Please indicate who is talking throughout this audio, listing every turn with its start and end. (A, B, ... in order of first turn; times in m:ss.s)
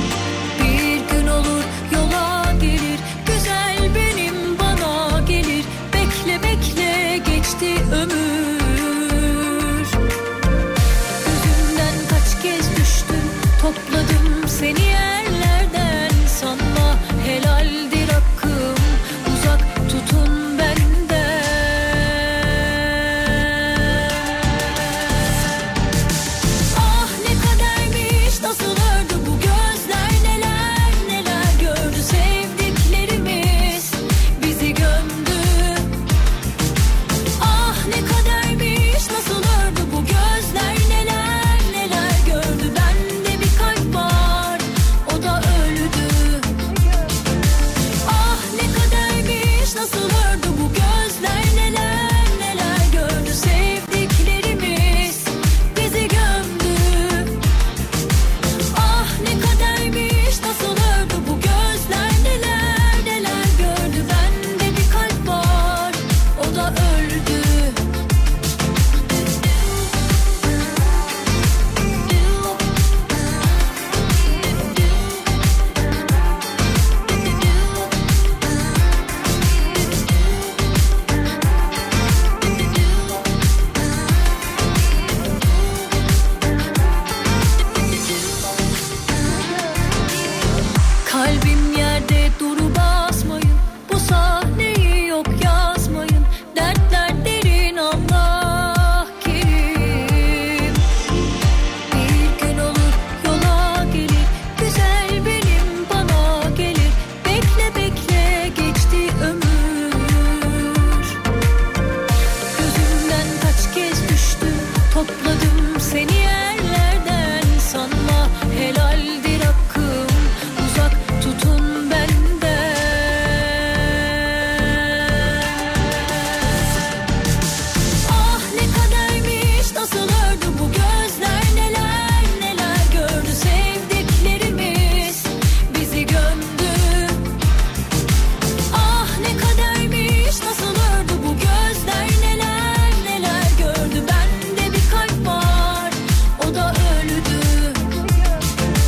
0:00.6-0:10.0 A
0:11.2-0:24.2 A
0:26.7-0:35.9 A
0:37.4-0:46.6 A
0:48.0-0:57.4 A
0:58.7-1:07.8 A
1:12.0-1:12.6 A
1:31.0-1:40.8 A
1:41.9-1:51.1 A
1:52.6-2:05.5 A
2:08.0-2:17.2 A
2:18.7-2:28.2 A